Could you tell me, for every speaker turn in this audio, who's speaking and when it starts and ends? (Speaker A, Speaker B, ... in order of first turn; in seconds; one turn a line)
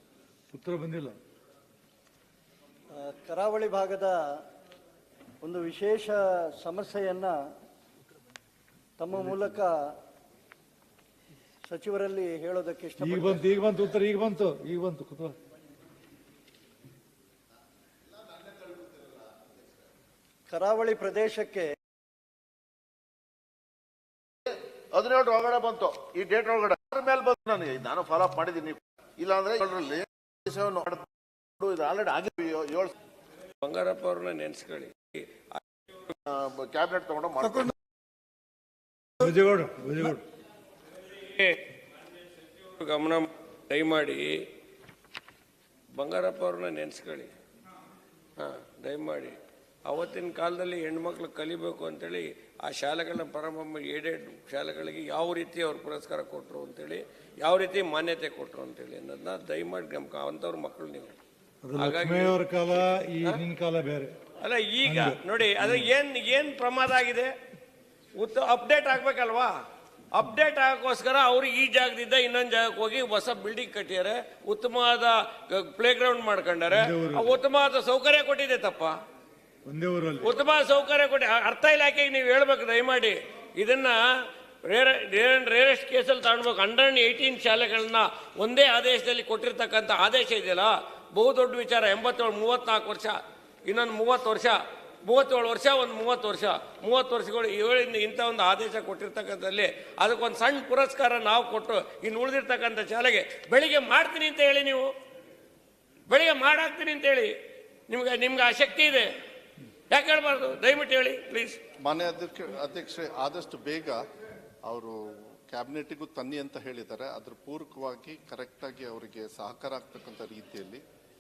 Speaker A: 0.5-1.2
Speaker B: 2.9-4.4
Speaker B: 5.4-7.3
Speaker B: 9.0-9.8
Speaker B: 11.7-13.5
Speaker A: 13.0-15.4
Speaker B: 20.5-21.7
Speaker C: 24.5-32.9
Speaker D: 33.6-35.2
Speaker C: 36.3-37.7
Speaker A: 39.2-40.2
Speaker D: 41.2-41.6
Speaker D: 42.6-44.4
Speaker D: 46.0-47.3
Speaker D: 48.4-61.1
Speaker A: 61.6-64.1
Speaker D: 61.8-62.4
Speaker D: 64.4-67.3
Speaker A: 64.8-65.9
Speaker D: 68.2-69.5
Speaker D: 70.2-79.0
Speaker A: 76.7-77.3
Speaker A: 79.7-80.3
Speaker D: 80.2-84.0
Speaker D: 84.7-104.9
Speaker D: 106.1-107.3
Speaker D: 107.9-109.1
Speaker D: 109.9-111.6
Speaker E: 111.8-114.0
Speaker E: 114.7-120.8